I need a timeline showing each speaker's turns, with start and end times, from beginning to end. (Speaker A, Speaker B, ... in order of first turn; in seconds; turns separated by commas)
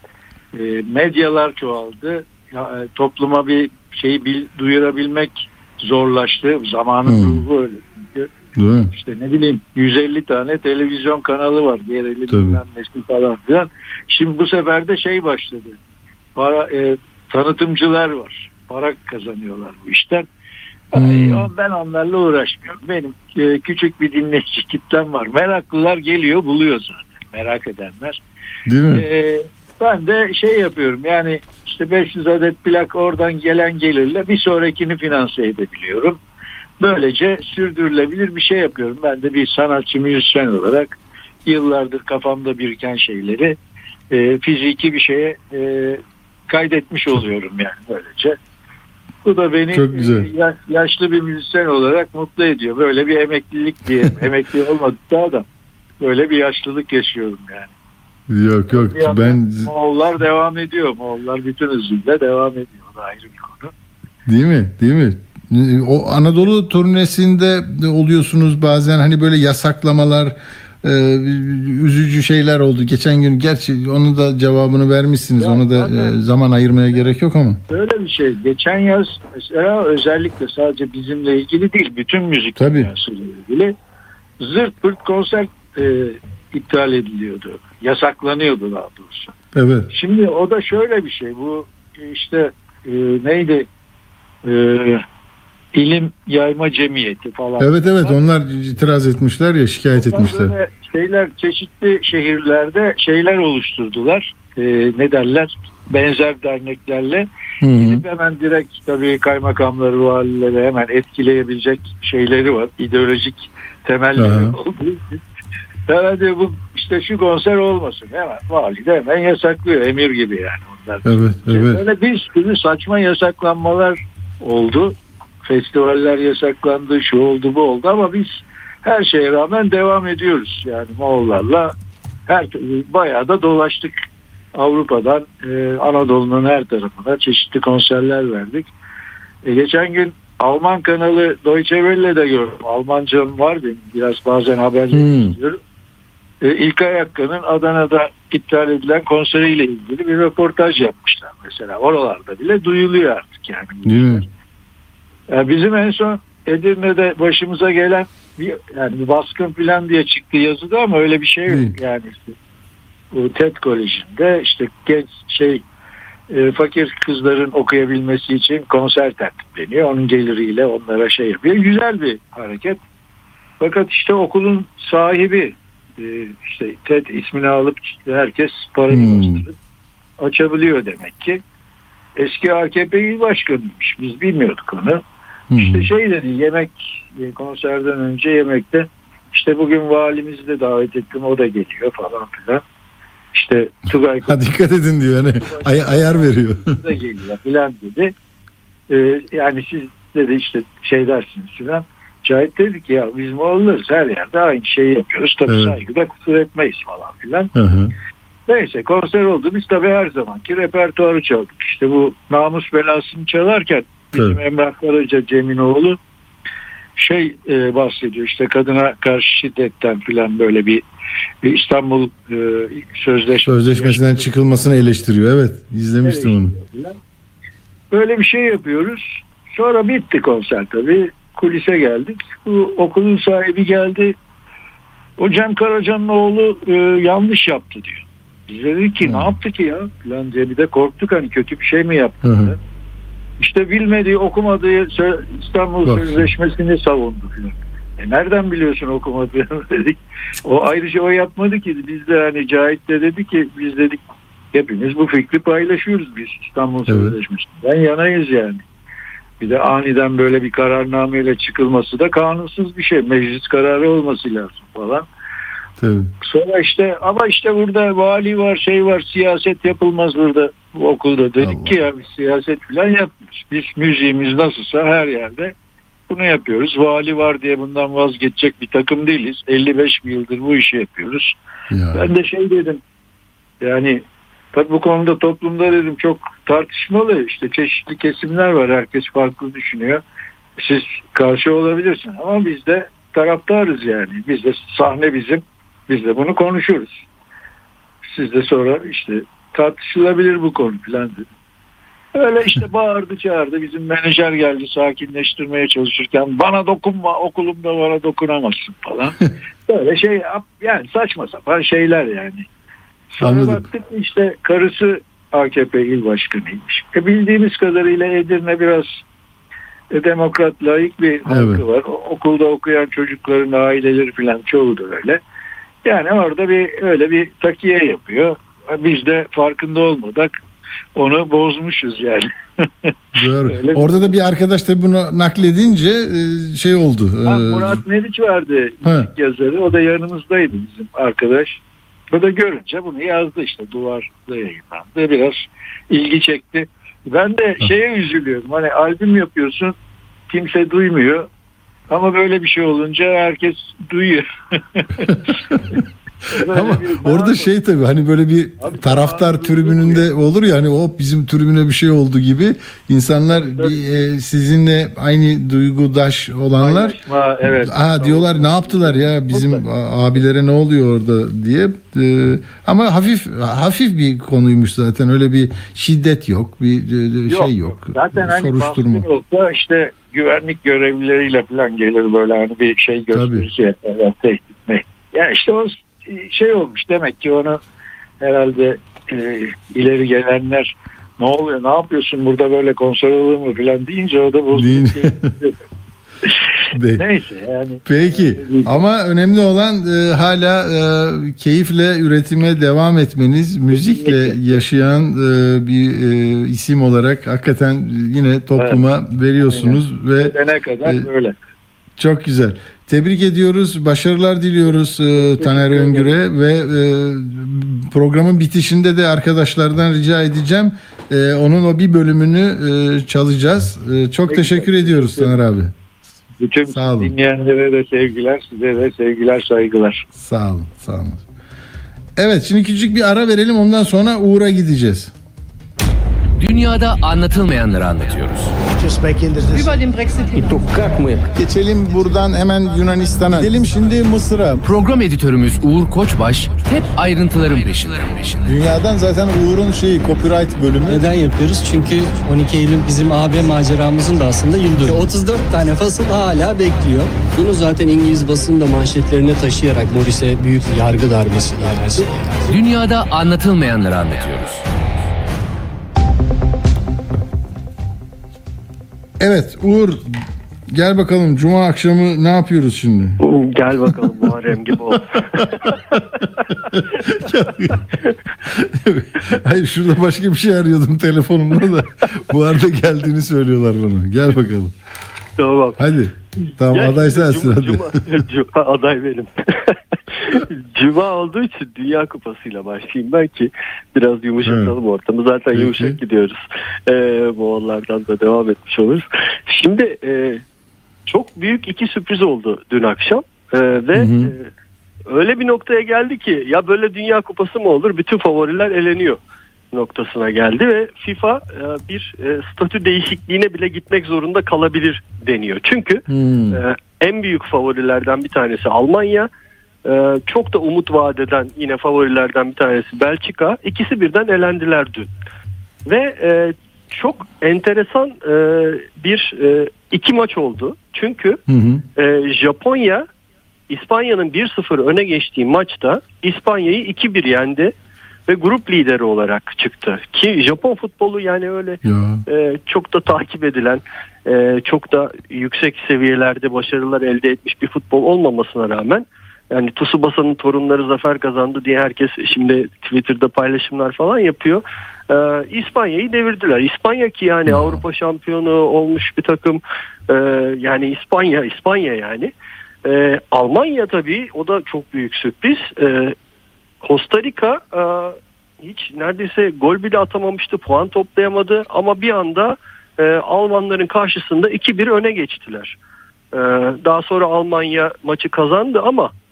Speaker A: 0.5-8.3, Speaker B: 7.0-7.4, Speaker B: 8.6-8.9, Speaker A: 8.9-15.8, Speaker B: 12.3-12.6, Speaker A: 16.4-20.2, Speaker A: 20.9-28.2, Speaker B: 20.9-21.5, Speaker B: 28.7-29.1, Speaker A: 28.9-36.2, Speaker A: 36.8-43.6, Speaker A: 44.1-48.4, Speaker A: 49.2-55.5, Speaker B: 49.7-50.3, Speaker A: 56.0-57.7, Speaker B: 58.3-59.7, Speaker A: 58.7-63.7, Speaker B: 64.3-77.6, Speaker A: 75.4-76.2, Speaker A: 77.7-83.8, Speaker B: 82.6-82.9, Speaker A: 84.4-89.3, Speaker B: 89.5-89.9, Speaker A: 89.9-93.7, Speaker A: 94.4-95.0, Speaker A: 95.7-98.2, Speaker B: 97.6-100.5, Speaker A: 100.0-115.2, Speaker B: 107.6-108.0, Speaker B: 114.2-114.5, Speaker A: 115.9-131.7, Speaker B: 121.0-121.8, Speaker A: 132.3-134.0, Speaker A: 134.5-138.7, Speaker A: 139.4-145.6, Speaker B: 144.9-145.3, Speaker A: 146.4-154.2, Speaker B: 153.8-154.2, Speaker A: 155.3-162.3, Speaker B: 161.5-161.8, Speaker A: 163.1-165.6, Speaker A: 166.3-172.8, Speaker A: 173.6-179.5, Speaker B: 178.9-179.4, Speaker A: 180.2-181.4, Speaker A: 182.2-185.0, Speaker B: 185.5-185.9, Speaker A: 185.6-192.6, Speaker A: 193.3-194.4, Speaker B: 194.2-196.8, Speaker A: 195.4-198.1, Speaker A: 198.9-207.5, Speaker B: 205.5-205.8, Speaker B: 207.5-207.9, Speaker A: 208.5-216.0, Speaker B: 214.1-214.4, Speaker A: 217.0-220.8, Speaker A: 221.4-224.3, Speaker B: 223.4-226.6, Speaker A: 226.0-226.9, Speaker A: 227.9-234.2, Speaker A: 235.2-242.6, Speaker B: 239.0-239.3, Speaker B: 242.2-242.5, Speaker A: 243.4-258.6, Speaker B: 245.8-246.3, Speaker B: 256.9-257.1, Speaker A: 259.4-265.1, Speaker B: 265.8-266.1, Speaker A: 266.2-275.5, Speaker B: 271.4-271.8, Speaker A: 276.1-281.3, Speaker B: 281.7-282.1, Speaker A: 281.9-282.8, Speaker A: 283.6-290.0, Speaker A: 290.6-297.0, Speaker A: 298.0-301.2, Speaker A: 302.1-312.4, Speaker A: 313.1-319.0, Speaker B: 313.2-313.7, Speaker A: 319.9-325.2, Speaker B: 321.3-321.6, Speaker A: 325.8-330.3, Speaker A: 330.9-332.9, Speaker B: 333.1-337.8, Speaker A: 333.4-334.1, Speaker A: 337.2-341.6, Speaker A: 342.1-349.7, Speaker A: 350.3-351.3, Speaker A: 351.9-355.6, Speaker B: 355.1-355.8, Speaker A: 356.3-357.5, Speaker B: 356.4-379.1, Speaker A: 358.6-360.1, Speaker A: 363.3-364.0, Speaker A: 366.6-369.6, Speaker A: 377.3-387.6, Speaker B: 383.1-383.5, Speaker A: 388.2-395.5, Speaker B: 394.5-395.3, Speaker B: 396.7-397.0, Speaker A: 396.9-398.8, Speaker B: 397.9-411.1, Speaker A: 403.7-404.6, Speaker A: 408.6-408.8, Speaker A: 409.4-411.4, Speaker B: 412.0-425.7, Speaker A: 415.1-416.1, Speaker A: 424.3-425.4, Speaker A: 426.4-430.0, Speaker B: 426.7-427.1, Speaker B: 430.2-431.2, Speaker B: 432.2-435.1, Speaker C: 436.4-438.6, Speaker B: 441.3-444.6, Speaker C: 444.6-448.5, Speaker B: 448.4-451.1, Speaker D: 450.8-462.4, Speaker C: 462.5-464.6, Speaker B: 469.2-473.2, Speaker E: 473.2-476.5, Speaker B: 475.0-477.9, Speaker E: 477.7-478.1, Speaker B: 478.5-484.7, Speaker E: 485.4-485.8, Speaker B: 485.8-488.0, Speaker E: 486.5-500.4, Speaker B: 494.4-494.7, Speaker B: 495.5-496.0, Speaker E: 501.1-504.5, Speaker B: 503.9-504.3, Speaker E: 505.1-509.2, Speaker E: 509.7-519.3, Speaker B: 516.1-516.6, Speaker E: 519.8-525.1, Speaker E: 525.9-531.4, Speaker B: 531.5-531.8, Speaker E: 532.0-533.0, Speaker E: 533.7-537.7, Speaker E: 538.3-562.3, Speaker B: 541.8-542.2, Speaker B: 557.5-557.8, Speaker E: 562.8-566.1, Speaker E: 566.8-575.8, Speaker E: 576.3-579.1